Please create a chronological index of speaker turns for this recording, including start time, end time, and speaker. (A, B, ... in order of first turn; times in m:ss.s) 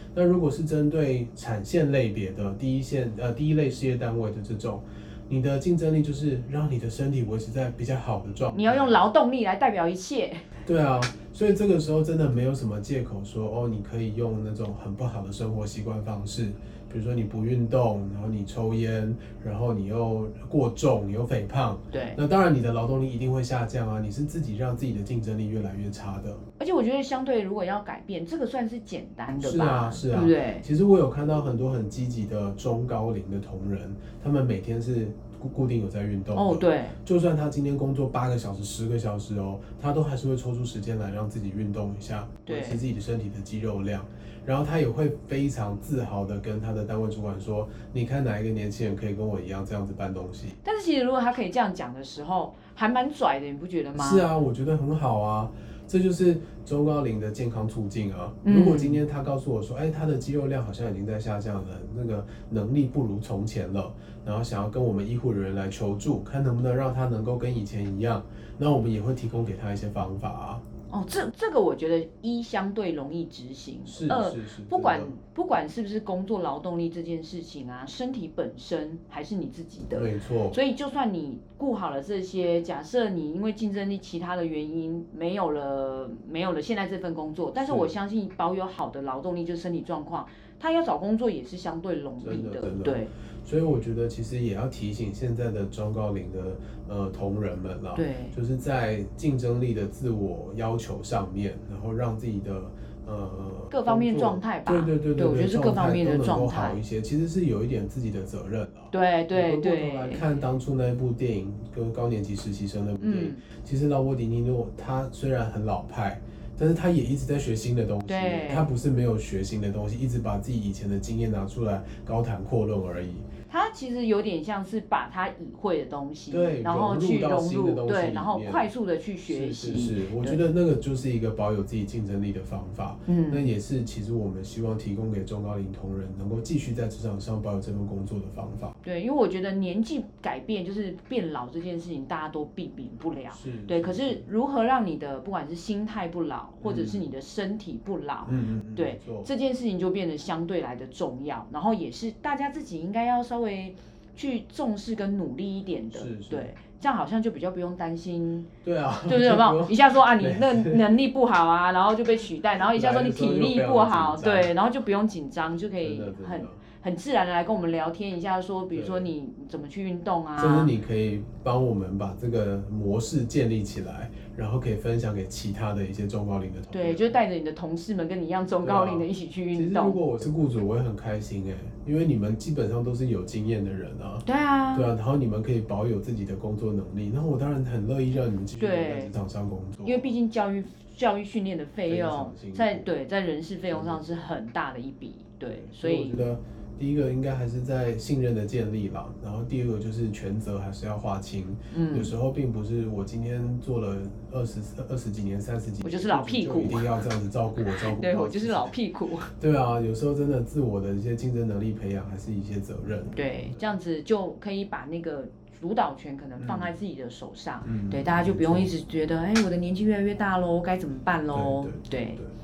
0:00.1-0:09.0 A
0:08.5-0:10.5 B
0:10.6-0:26.4 A
0:21.9-0:22.2 B
0:26.6-0:30.7 B
0:29.4-0:50.6 A
0:36.3-0:37.0 B
0:42.5-0:42.8 B
0:50.6-0:54.3 B
0:54.0-1:10.6 A
0:58.4-0:59.0 B
1:10.9-1:33.1 B
1:13.9-1:15.2 A
1:19.9-1:20.6 A
1:27.6-1:27.9 A
1:32.2-2:03.3 A
1:38.0-1:38.4 B
1:43.7-1:46.8 B
1:48.9-1:50.3 B
1:53.0-1:53.4 B
1:58.1-1:58.7 B
2:03.5-2:10.4 B
2:06.3-2:08.7 A
2:09.3-2:18.8 A
2:13.1-2:13.5 B
2:18.8-2:38.5 B
2:23.3-2:24.3 A
2:26.6-2:27.1 A
2:28.3-2:29.3 A
2:35.9-2:36.5 A
2:38.6-2:40.8 A
2:39.1-2:50.7 B
2:42.7-2:44.5 A
2:45.8-2:46.6 A
2:48.7-2:49.1 A
2:50.4-2:57.2 A
2:56.7-3:00.0 B
2:58.6-3:10.1 A
3:04.2-3:04.9 B
3:08.6-3:09.1 B
3:09.8-3:16.2 B
3:11.8-3:12.9 A
3:13.7-3:14.2 A
3:15.4-3:28.8 A
3:21.7-3:22.1 B
3:25.8-3:27.0 B
3:27.7-3:29.3 B
3:29.4-3:33.2 A
3:33.1-3:42.2 B
3:36.4-3:36.8 A
3:37.6-3:38.8 A
3:41.3-3:42.3 A